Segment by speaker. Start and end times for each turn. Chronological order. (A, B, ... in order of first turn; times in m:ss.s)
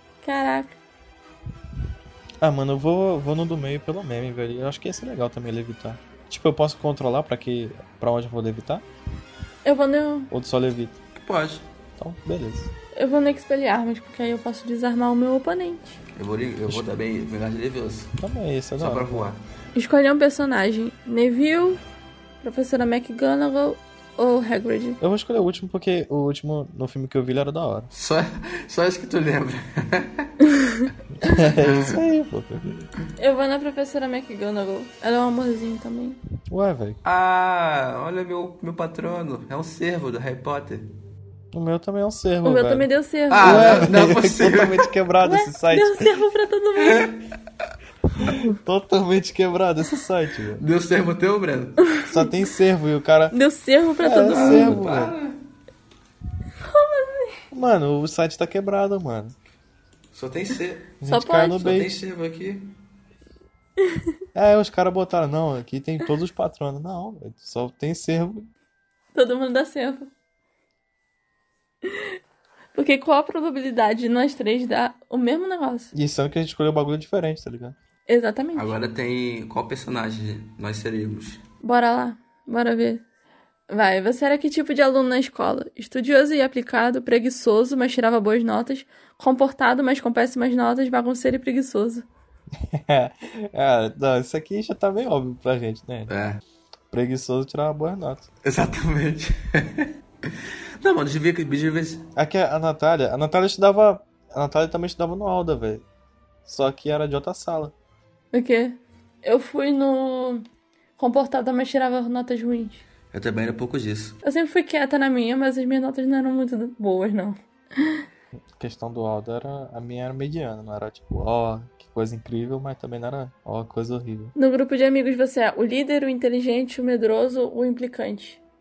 0:00.2-0:00.8 A
0:02.4-0:08.8 B
0:09.6-0:10.3 A
0:10.3-0:11.0 B
0:11.2-0:11.7 C
0:12.0-0:12.7 B
0:13.0-0:16.0 A
0:16.2-0:18.1 C
0:18.2-0:19.3 B
0:18.8-0:19.4 C
0:19.8-0:21.8 A
0:22.4-0:25.0 A
0:25.0-0:27.9 B
0:27.9-0:30.4 C
0:31.2-0:32.8 B
0:31.3-0:32.0 C
0:33.2-0:36.2 A
0:36.5-0:37.0 B
0:37.0-0:40.9 C
0:41.5-0:42.9 B
0:42.4-0:43.9 A
0:43.3-0:44.9 C
0:43.4-0:46.1 B
0:45.2-0:47.1 A
0:46.9-0:47.2 C
0:48.2-0:50.6 B
0:50.6-0:51.8 C
0:51.9-0:52.3 A
0:52.1-0:53.4 B
0:53.3-0:54.8 A
0:54.0-0:55.2 B
0:54.3-0:55.4 C
0:56.6-0:57.4 A
0:57.5-0:59.3 B
1:00.1-1:01.0 C
1:01.0-1:02.0 B
1:01.1-1:01.8 A
1:01.6-1:02.7 C
1:04.4-1:08.5 B
1:09.2-1:10.1 A
1:11.8-1:12.2 A
1:12.8-1:15.9 A
1:15.9-1:17.8 B
1:18.1-1:18.7 A
1:18.6-1:21.4 C
1:21.6-1:23.0 A
1:23.7-1:32.1 A
1:32.6-1:36.1 B
1:36.1-1:36.4 C
1:36.9-1:38.3 B
1:38.4-1:42.1 C
1:42.2-1:45.8 B
1:46.4-1:47.7 B
1:48.3-1:50.4 A
1:51.0-1:52.8 A
1:53.1-1:54.2 C
1:54.2-1:58.0 A
1:58.5-2:04.3 B
2:04.4-2:08.4 A